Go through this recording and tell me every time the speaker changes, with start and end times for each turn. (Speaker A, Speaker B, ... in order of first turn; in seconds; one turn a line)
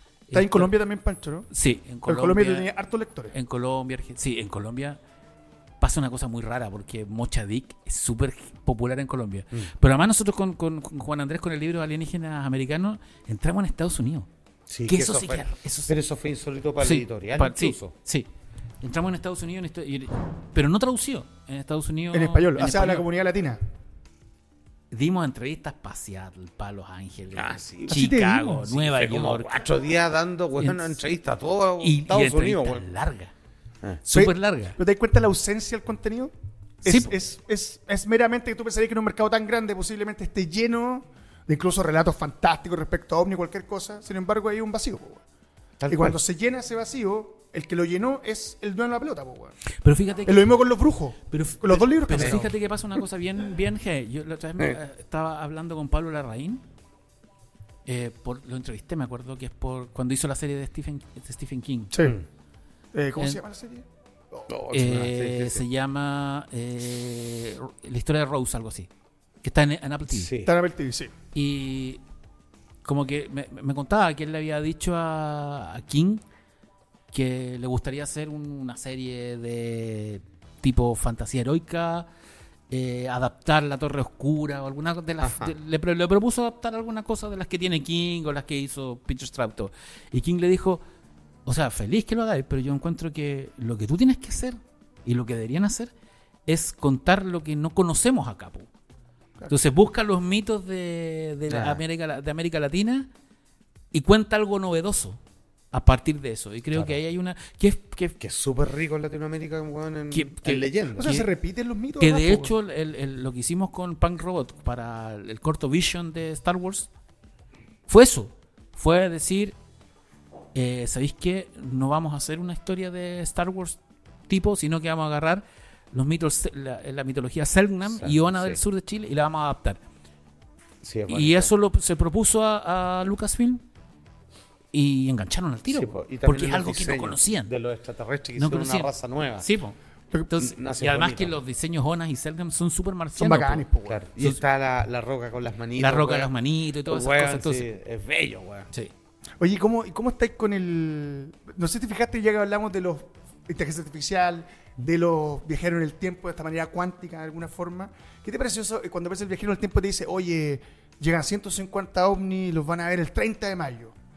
Speaker A: 0.3-0.7
Speaker B: 0.3-1.5
Speaker A: 1.5-2.7
Speaker B: 2.0-3.3
Speaker A: 3.3-5.0
Speaker A: 5.8-14.3
Speaker C: 14.7-17.9
Speaker A: 14.9-15.9
Speaker A: 16.8-18.3
Speaker A: 18.8-23.1
Speaker B: 22.1-23.6
Speaker A: 24.9-29.6
Speaker C: 27.4-32.9
Speaker B: 27.9-28.6
Speaker A: 30.6-31.0
Speaker A: 31.8-33.3
Speaker A: 34.1-34.8
Speaker B: 34.1-45.2
Speaker A: 36.9-37.1
Speaker C: 45.8-46.2
Speaker B: 45.9-49.6
Speaker A: 49.8-50.5
Speaker B: 50.2-52.5
Speaker A: 51.3-56.6
Speaker C: 52.2-52.4
Speaker A: 57.9-61.9
Speaker B: 61.9-62.2
Speaker B: 62.9-64.5
Speaker C: 64.5-65.6
Speaker A: 64.7-68.9
Speaker A: 69.4-70.3
Speaker C: 70.1-70.5
Speaker B: 70.4-71.1
Speaker A: 71.3-72.0
Speaker A: 72.8-76.2
Speaker A: 77.1-82.1
Speaker A: 82.7-90.8
Speaker C: 85.2-85.5
Speaker A: 91.5-95.9
Speaker A: 96.5-98.7
Speaker A: 99.5-103.1
Speaker C: 101.5-101.8
Speaker A: 103.9-105.2
Speaker A: 105.7-108.2
Speaker C: 108.2-111.2
Speaker A: 110.1-111.2
Speaker B: 111.0-112.5
Speaker A: 112.0-116.9
Speaker A: 117.9-119.5
Speaker A: 120.5-129.8
Speaker C: 127.9-128.6
Speaker C: 130.8-131.5
Speaker A: 131.1-133.6
Speaker A: 134.7-137.5
Speaker C: 135.7-139.5
Speaker A: 138.4-139.8
Speaker A: 140.3-143.7
Speaker C: 140.4-141.3
Speaker B: 143.2-144.0
Speaker C: 143.9-146.3
Speaker A: 145.8-147.7
Speaker C: 146.9-148.7
Speaker B: 149.4-164.0